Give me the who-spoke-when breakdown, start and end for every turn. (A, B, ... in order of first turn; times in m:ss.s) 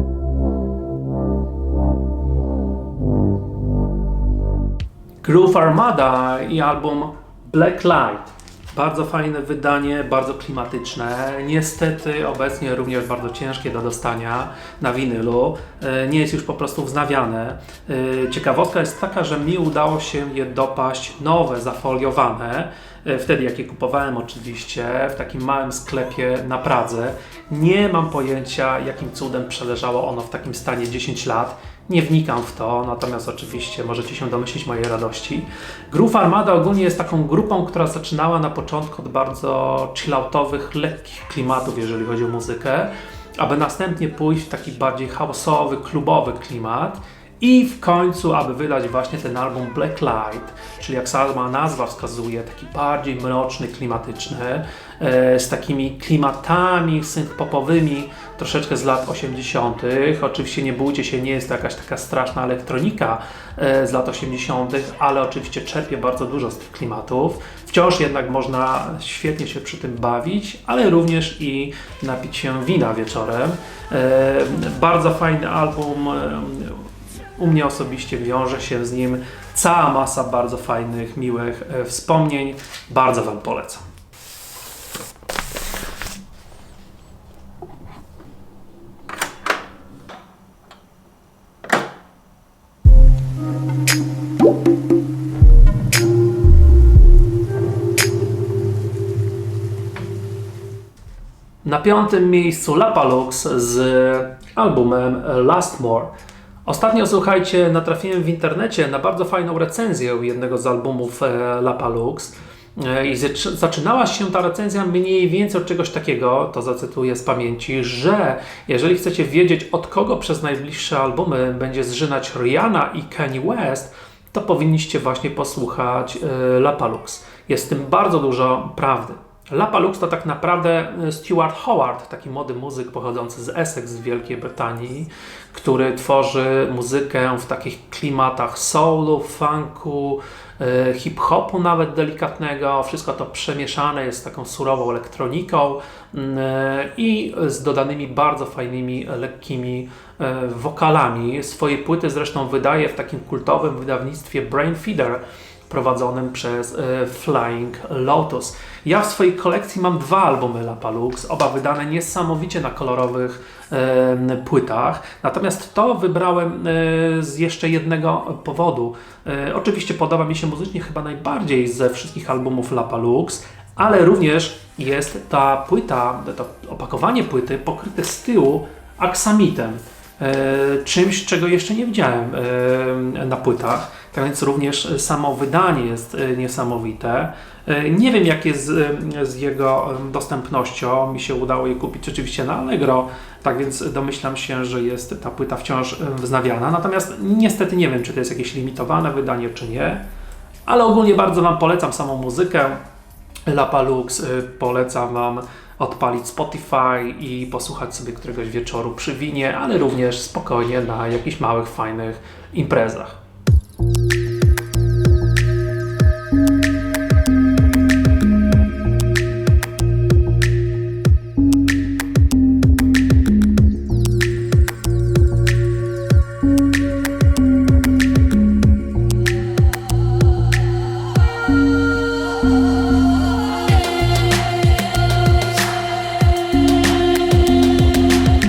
0:05.2-1:23.8 A
1:41.6-1:46.1 A
1:46.6-3:20.0 A
3:20.6-3:22.8 A
3:23.5-3:33.2 A